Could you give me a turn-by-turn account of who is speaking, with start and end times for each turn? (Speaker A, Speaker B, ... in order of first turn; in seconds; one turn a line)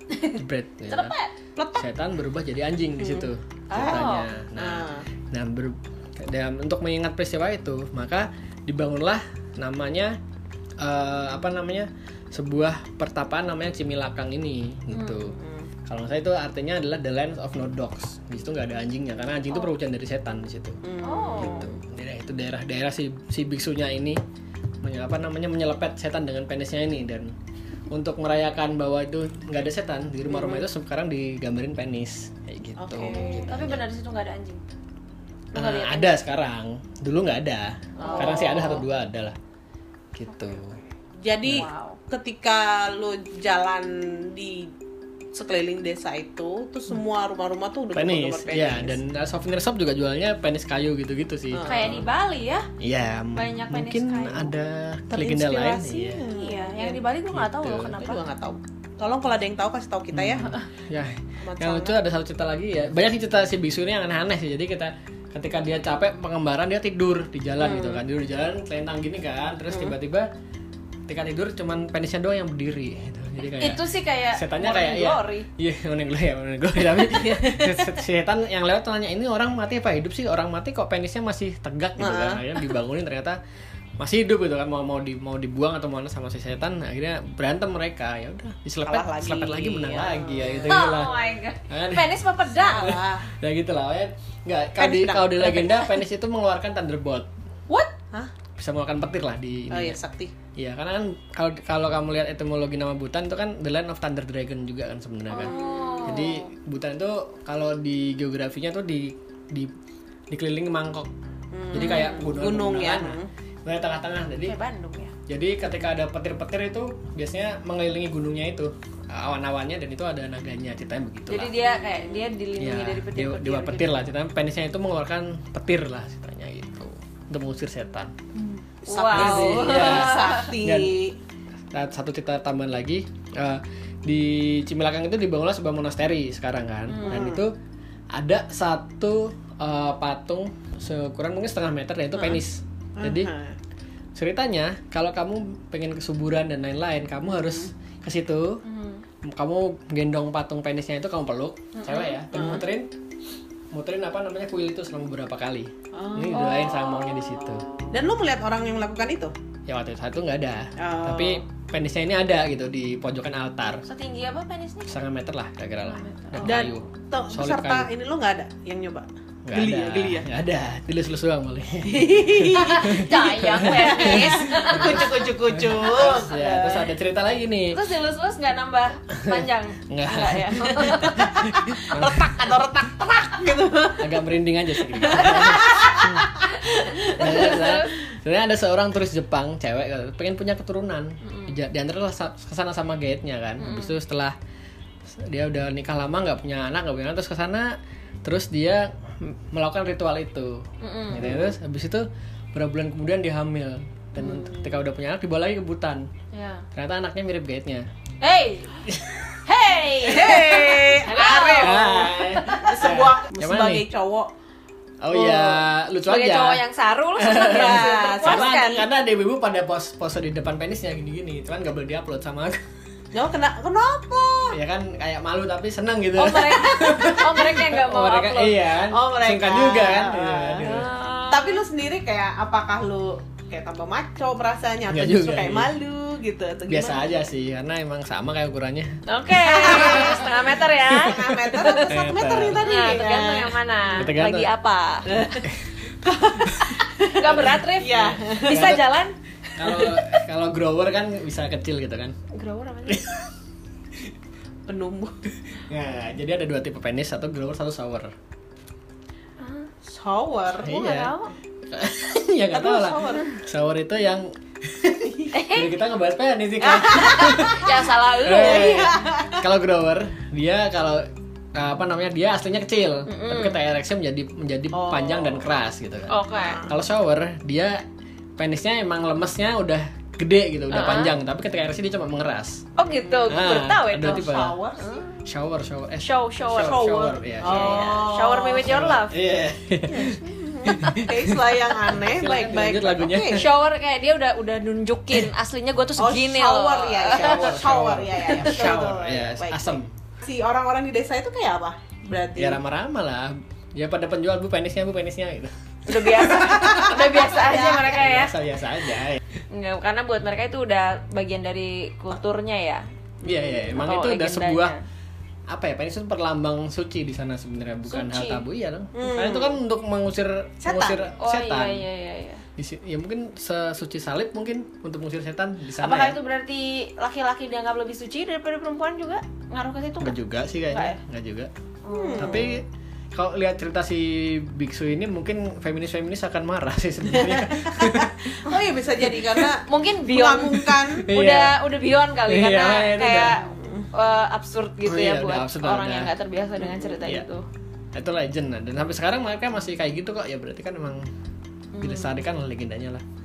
Speaker A: 0.2-1.3
Speaker B: 0.3-1.1
Speaker C: 1.6-1.9
Speaker B: 1.7-10.2
Speaker C: 3.0-5.0
Speaker A: 3.7-4.3
Speaker B: 10.8-15.3
Speaker A: 14.9-15.3
Speaker C: 15.3-15.7
Speaker B: 15.8-20.8
Speaker C: 20.8-21.7
Speaker A: 21.0-21.7
Speaker B: 21.4-24.2
Speaker B: 24.8-27.3
Speaker B: 27.9-33.8
Speaker C: 30.3-30.6
Speaker C: 32.8-33.5
Speaker A: 33.0-34.6
Speaker A: 35.5-36.1
Speaker B: 35.5-39.4
Speaker C: 38.0-38.8
Speaker A: 38.0-38.7
Speaker B: 40.1-40.8
Speaker C: 41.2-44.7
Speaker B: 41.4-41.7
Speaker A: 41.5-42.0
Speaker C: 45.3-49.0
Speaker B: 47.9-52.0
Speaker C: 51.5-52.0
Speaker A: 51.6-52.7
Speaker B: 52.8-56.2
Speaker A: 53.3-54.5
Speaker C: 55.1-57.0
Speaker A: 56.2-58.2
Speaker B: 57.3-58.0
Speaker C: 58.0-60.6
Speaker B: 60.1-70.3
Speaker C: 61.4-62.0
Speaker C: 67.6-68.0
Speaker B: 71.1-83.4
Speaker A: 73.6-75.5
Speaker C: 77.1-77.9
Speaker C: 82.0-82.5
Speaker B: 84.0-91.2
Speaker C: 88.8-91.0
Speaker A: 90.7-93.0
Speaker B: 91.7-92.2
Speaker C: 92.5-93.3
Speaker B: 92.8-97.3
Speaker C: 94.8-95.9
Speaker B: 98.6-100.0
Speaker C: 99.7-100.3
Speaker B: 100.5-109.7
Speaker A: 105.3-106.5
Speaker C: 105.4-106.2
Speaker B: 110.3-111.1
Speaker C: 111.5-113.3
Speaker B: 111.7-114.5
Speaker A: 111.8-112.1
Speaker A: 114.4-115.1
Speaker B: 115.3-121.5
Speaker A: 121.3-124.1
Speaker B: 122.6-128.1
Speaker C: 128.4-131.2
Speaker A: 128.9-130.5
Speaker B: 129.1-130.9
Speaker B: 131.7-137.5
Speaker A: 136.9-137.3
Speaker C: 137.0-137.4
Speaker B: 138.1-143.3
Speaker C: 143.0-143.5
Speaker B: 144.2-148.6
Speaker C: 147.3-147.7
Speaker A: 148.6-149.0
Speaker B: 149.2-152.9
Speaker A: 151.7-152.2
Speaker C: 152.3-152.6
Speaker B: 153.7-157.7
Speaker C: 155.9-156.5
Speaker A: 156.3-157.9
Speaker C: 157.9-159.3
Speaker B: 159.7-163.8
Speaker C: 160.8-161.4
Speaker A: 163.8-164.9
Speaker B: 164.8-167.9
Speaker A: 165.8-166.6
Speaker C: 166.4-170.3
Speaker B: 169.4-177.8
Speaker C: 171.8-176.9
Speaker A: 172.7-175.3
Speaker A: 177.7-181.3
Speaker B: 179.2-182.2
Speaker C: 180.9-184.2
Speaker B: 184.0-186.3
Speaker C: 184.8-187.5
Speaker A: 186.6-188.0
Speaker B: 187.2-194.3
Speaker A: 191.2-191.5
Speaker A: 193.6-194.0
Speaker B: 195.1-206.1
Speaker A: 200.8-201.5
Speaker A: 204.2-204.5
Speaker A: 206.3-206.7
Speaker B: 206.7-207.8
Speaker A: 208.2-208.8
Speaker B: 208.8-209.3
Speaker A: 209.4-212.1
Speaker C: 210.0-214.3
Speaker B: 211.6-213.8
Speaker B: 215.0-216.6
Speaker C: 215.2-215.6
Speaker A: 216.0-218.8
Speaker B: 217.2-222.6
Speaker C: 217.3-218.8
Speaker C: 223.1-224.6
Speaker B: 224.5-230.9
Speaker A: 226.2-228.6
Speaker C: 228.9-230.7
Speaker A: 230.6-231.6
Speaker C: 231.3-237.2
Speaker B: 234.9-235.7
Speaker B: 236.7-239.0
Speaker A: 239.1-241.9
Speaker C: 239.4-244.0
Speaker B: 239.7-240.2
Speaker B: 240.9-242.7
Speaker A: 242.5-245.4
Speaker B: 243.9-244.5
Speaker C: 245.1-248.8
Speaker A: 247.0-249.2
Speaker B: 248.5-248.8
Speaker B: 249.6-252.2
Speaker C: 249.7-250.0
Speaker A: 252.3-253.0
Speaker B: 252.9-253.3
Speaker C: 254.7-255.2
Speaker B: 255.6-258.1
Speaker A: 259.4-259.7
Speaker C: 259.8-260.7
Speaker B: 260.6-261.1
Speaker A: 260.6-261.3
Speaker B: 261.7-267.7
Speaker C: 262.5-263.4
Speaker C: 265.1-265.3
Speaker A: 265.3-265.7
Speaker C: 266.6-267.7
Speaker A: 267.1-268.9
Speaker B: 268.2-277.8
Speaker C: 268.3-269.4
Speaker A: 273.1-273.6
Speaker C: 274.7-275.5
Speaker A: 276.1-276.6
Speaker C: 276.3-276.7
Speaker B: 278.4-282.6
Speaker A: 280.7-281.1
Speaker A: 282.8-285.1
Speaker C: 283.0-285.0
Speaker B: 283.3-284.6
Speaker B: 285.2-288.1
Speaker A: 286.0-289.2
Speaker C: 286.6-288.6
Speaker B: 288.6-293.5
Speaker A: 289.9-291.0
Speaker C: 290.0-293.4
Speaker A: 293.3-297.6
Speaker C: 296.0-302.6
Speaker B: 297.1-299.9
Speaker B: 302.4-309.2
Speaker A: 305.9-308.3
Speaker C: 306.3-307.8
Speaker A: 309.5-314.8
Speaker B: 313.2-314.7
Speaker B: 315.5-321.8
Speaker A: 317.9-318.4
Speaker C: 318.9-319.6
Speaker C: 320.6-321.1
Speaker A: 321.2-322.4
Speaker B: 322.6-326.2
Speaker A: 325.8-330.1
Speaker B: 330.0-331.5
Speaker A: 330.7-331.0
Speaker A: 331.8-332.5
Speaker C: 331.9-332.5
Speaker B: 332.2-338.4
Speaker C: 337.1-341.1
Speaker B: 339.0-339.5
Speaker A: 339.7-347.4
Speaker B: 340.9-341.6
Speaker B: 342.3-343.4
Speaker C: 343.4-343.9
Speaker B: 344.9-346.1
Speaker C: 346.6-347.0
Speaker B: 347.9-351.1
Speaker A: 351.7-352.2
Speaker B: 351.8-353.0